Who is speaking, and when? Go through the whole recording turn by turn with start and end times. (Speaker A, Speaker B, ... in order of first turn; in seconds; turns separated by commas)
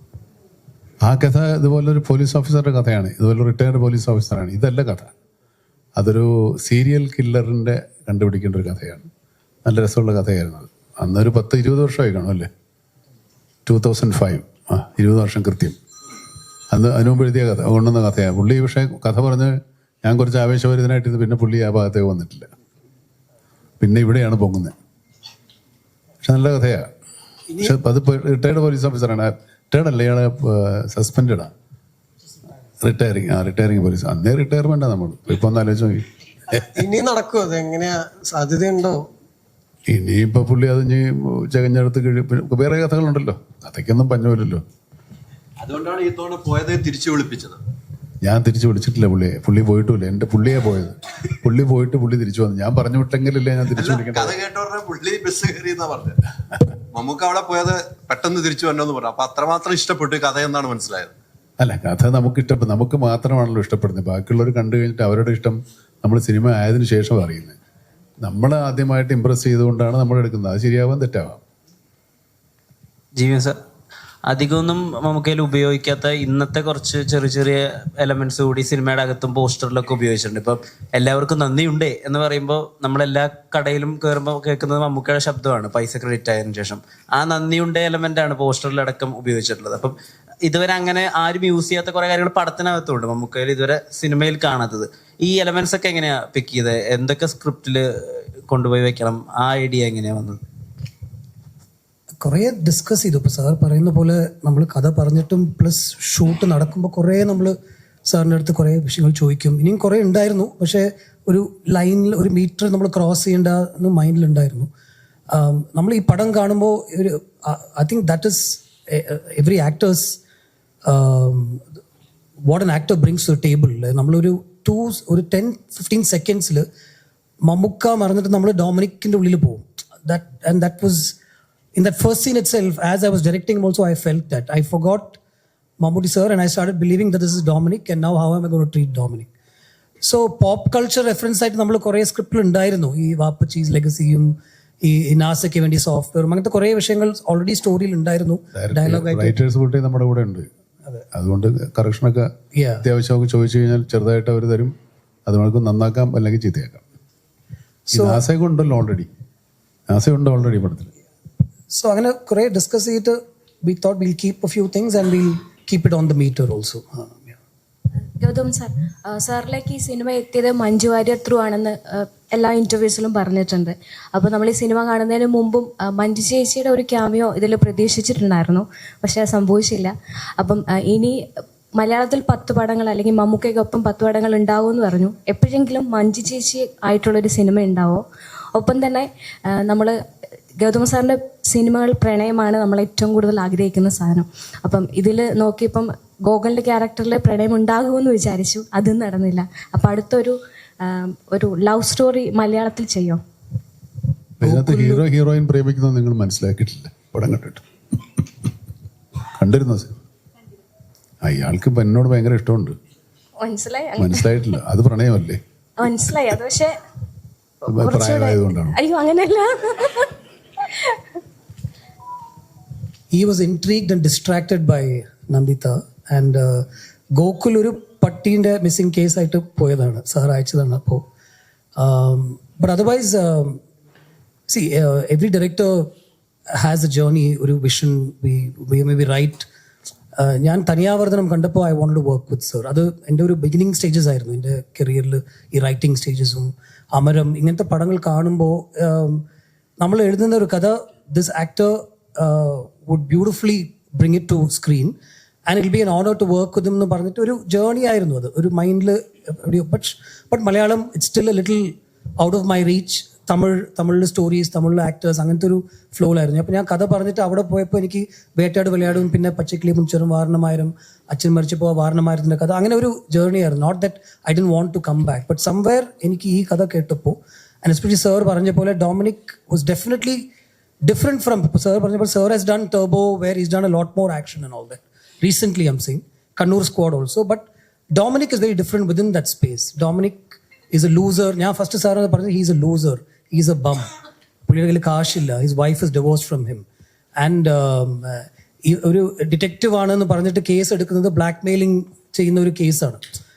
Speaker A: 1.0-5.1, Speaker A: 6.0-9.1, Speaker A: 9.6-12.5, Speaker A: 13.7-15.8, Speaker A: 16.7-22.5, Speaker A: 23.8-24.7, Speaker A: 26.2-26.9, Speaker A: 27.6-31.5, Speaker A: 32.8-36.6, Speaker B: 36.7-39.1, Speaker A: 39.9-44.6, Speaker C: 45.6-47.6, Speaker A: 48.2-54.4, Speaker C: 53.7-56.2, Speaker C: 56.9-61.1, Speaker A: 61.6-67.6, Speaker A: 68.2-71.4, Speaker D: 73.2-73.6, Speaker D: 74.2-100.4, Speaker E: 102.2-107.5, Speaker E: 108.1-114.7, Speaker E: 115.3-120.2, Speaker E: 120.8-121.7, Speaker E: 122.5-126.7, Speaker E: 127.4-131.1, Speaker E: 131.7-135.2, Speaker E: 135.8-139.3, Speaker E: 140.0-149.3, Speaker A: 148.5-150.5, Speaker A: 151.1-152.3, Speaker E: 152.5-152.8, Speaker A: 152.8-154.7, Speaker A: 155.2-156.8, Speaker E: 157.9-158.2, Speaker A: 157.9-159.1, Speaker A: 159.9-160.9, Speaker E: 161.7-167.4, Speaker F: 168.2-181.1, Speaker F: 181.8-188.0, Speaker F: 188.5-189.9, Speaker F: 190.6-203.2, Speaker A: 204.4-207.6, Speaker E: 204.4-205.0, Speaker A: 209.3-209.9, Speaker A: 211.2-212.7, Speaker F: 213.4-214.3, Speaker A: 214.0-215.4, Speaker F: 215.8-216.7, Speaker A: 217.7-218.8, Speaker F: 217.7-221.0, Speaker E: 223.1-231.0, Speaker E: 231.8-233.6, Speaker E: 234.5-235.9, Speaker E: 236.5-239.5, Speaker E: 240.2-249.2, Speaker E: 249.8-254.9, Speaker E: 255.5-280.2, Speaker E: 280.8-293.9, Speaker E: 294.4-296.6, Speaker E: 297.2-303.0